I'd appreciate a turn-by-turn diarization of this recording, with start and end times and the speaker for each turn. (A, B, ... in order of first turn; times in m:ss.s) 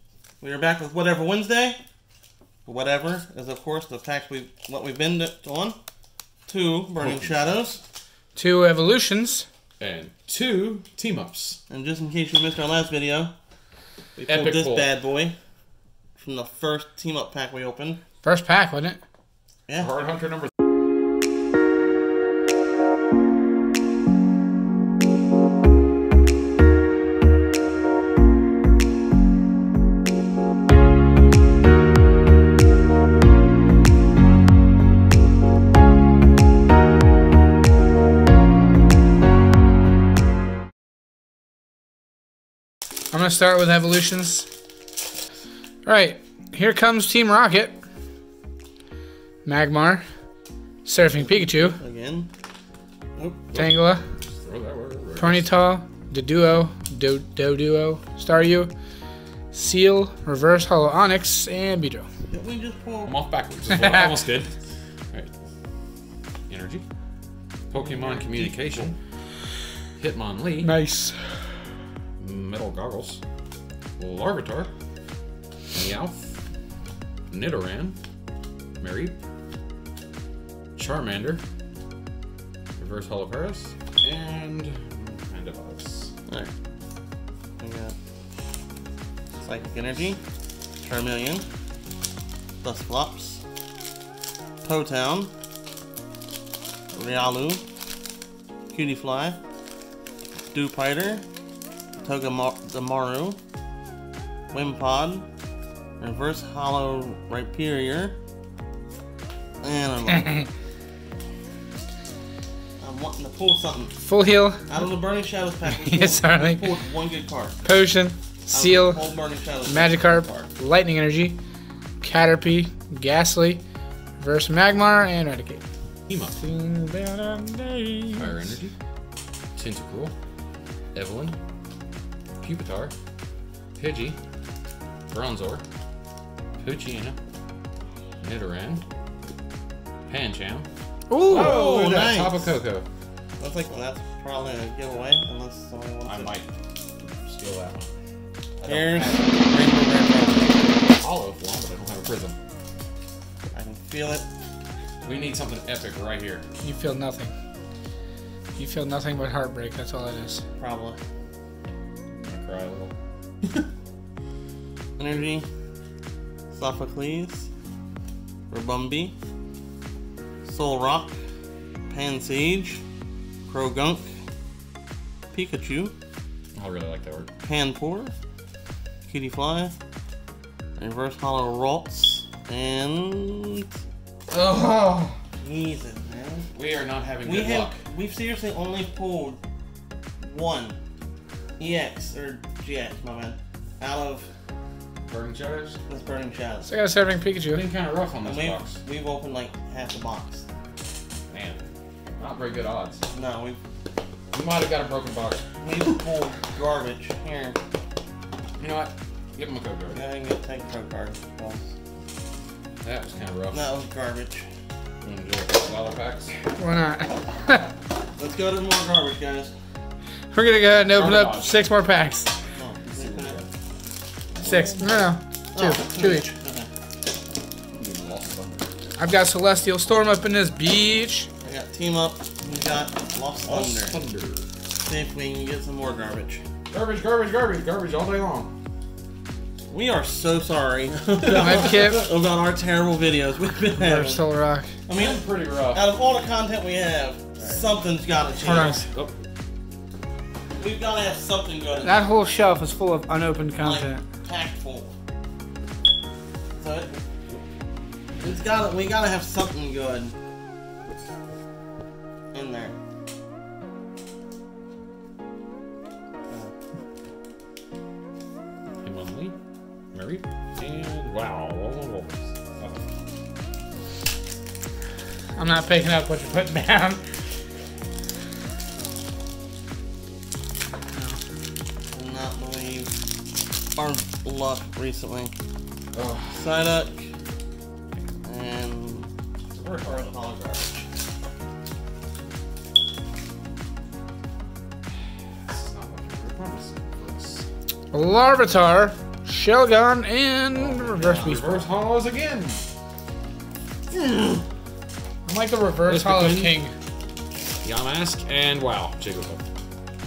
0:00.4-0:01.8 A
0:02.7-0:05.8 A
0:06.5-0:07.8 A
0:07.0-0:07.4 B
0:08.4-0:09.5 C
0:09.8-0:11.6 B
0:11.7-0:13.4 A
0:14.2-0:15.4 A
0:14.2-0:14.9 B
0:16.2-0:18.0 A
0:18.2-0:19.0 C
0:20.0-0:20.3 B
0:43.1-0:44.5 C
0:45.8-0:47.7 C
0:49.4-0:50.0 C
0:50.8-0:51.8 C
0:51.1-0:52.3 A
0:53.2-0:53.5 A
0:53.6-0:54.0 C
0:54.2-0:55.5 B
0:55.2-0:58.7 C
0:59.5-1:02.1 C
1:02.3-1:03.2 A
1:03.0-1:04.6 B
1:03.7-1:04.2 C
1:06.5-1:06.8 B
1:07.7-1:08.9 B
1:07.8-1:08.9 A
1:10.0-1:10.7 B
1:10.6-1:11.5 C
1:12.2-1:13.2 B
1:14.0-1:14.7 B
1:15.7-1:16.3 B
1:17.3-1:18.0 B
1:18.8-1:19.1 B
1:20.8-1:21.4 B
1:22.8-1:26.1 B
1:26.3-1:26.5 A
1:27.6-1:28.0 A
1:29.4-1:30.2 A
1:30.8-1:31.4 A
1:32.6-1:33.4 A
1:34.6-1:35.3 A
1:36.9-1:37.6 A
1:38.7-1:39.4 A
1:40.5-1:41.2 A
1:42.0-1:43.4 A
1:44.5-1:45.3 A
1:46.0-1:48.2 A
1:49.6-1:50.5 A
1:52.8-1:54.0 A
1:54.0-1:54.6 C
1:54.7-1:57.6 A
1:55.7-1:56.7 C
1:57.6-1:59.0 C
1:58.5-2:00.5 A
1:59.7-2:01.4 C
2:02.0-2:03.6 C
2:04.2-2:05.6 C
2:06.1-2:06.4 B
2:06.4-2:08.4 C
2:08.2-2:08.7 B
2:09.6-2:10.1 B
2:10.9-2:11.4 B
2:12.4-2:12.9 B
2:13.8-2:14.2 B
2:15.1-2:15.6 B
2:16.6-2:17.2 B
2:18.2-2:18.8 B
2:20.1-2:20.7 B
2:21.1-2:21.7 C
2:21.2-2:22.9 B
2:21.3-2:22.5 A
2:23.4-2:26.4 A
2:26.0-2:27.9 B
2:28.6-2:30.7 A
2:28.6-2:29.3 B
2:30.9-2:32.4 B
2:33.5-2:34.3 A
2:35.0-2:36.4 B
2:36.6-2:37.3 C
2:38.6-2:40.4 C
2:40.6-2:41.0 A
2:42.1-2:42.9 B
2:45.0-2:45.5 A
2:46.5-2:47.5 A
2:48.5-2:49.1 A
2:50.4-2:51.2 A
2:51.9-2:52.8 A
2:53.5-2:54.1 A
2:55.3-2:55.9 A
2:56.6-2:57.3 B
2:57.4-2:58.1 A
2:59.1-2:59.8 A
3:00.8-3:03.7 A
3:04.3-3:05.2 B
3:05.4-3:06.5 A
3:06.5-3:07.8 B
3:07.2-3:09.4 A
3:10.2-3:10.8 A
3:11.6-3:14.3 A
3:15.1-3:15.8 B
3:15.9-3:16.7 A
3:16.7-3:17.6 C
3:17.5-3:18.8 B
3:18.2-3:20.4 A
3:21.3-3:21.7 B
3:22.2-3:23.0 B
3:23.1-3:23.6 A
3:24.3-3:25.4 B
3:25.6-3:27.6 A
3:28.6-3:30.0 B
3:29.9-3:31.7 A
3:32.8-3:33.6 B
3:33.5-3:34.5 A
3:35.0-3:36.3 B
3:36.6-3:37.7 C
3:38.2-3:39.5 A
3:40.3-3:42.3 C
3:40.9-3:41.5 B
3:42.6-3:43.4 A
3:42.9-3:43.5 B
3:44.4-3:45.1 B
3:44.4-3:46.3 C
3:44.5-3:44.8 A
3:45.5-3:46.7 A
3:47.7-3:48.7 B
3:49.0-3:51.3 C
3:51.4-3:54.0 A
3:53.5-3:54.5 B
3:54.8-3:56.4 A
3:56.7-3:58.5 B
3:59.7-4:04.2 A
4:01.2-4:01.8 B
4:01.3-4:02.1 C
4:03.8-4:04.7 C
4:04.9-4:08.8 A
4:05.0-4:05.8 B
4:07.4-4:07.6 B
4:08.4-4:08.9 C
4:08.9-4:09.2 B
4:10.6-4:12.1 A
4:11.8-4:14.0 C
4:13.6-4:14.9 A
4:16.6-4:17.0 A
4:18.2-4:20.2 A
4:22.3-4:22.8 A
4:28.8-4:29.4 B
4:29.9-4:32.8 B
4:35.4-4:37.0 C
4:40.9-4:41.2 C
4:41.9-4:42.9 A
4:43.8-4:45.3 A
4:45.9-4:46.5 B
4:46.3-4:47.1 A
4:48.2-4:49.1 A
4:49.5-4:50.1 B
4:49.7-4:50.9 A
4:55.5-4:57.5 B
4:57.9-5:01.6 C
5:00.5-5:01.4 A
5:01.1-5:02.6 B
5:03.9-5:04.4 B
5:05.3-5:06.7 C
5:05.8-5:06.6 B
5:07.6-5:09.4 B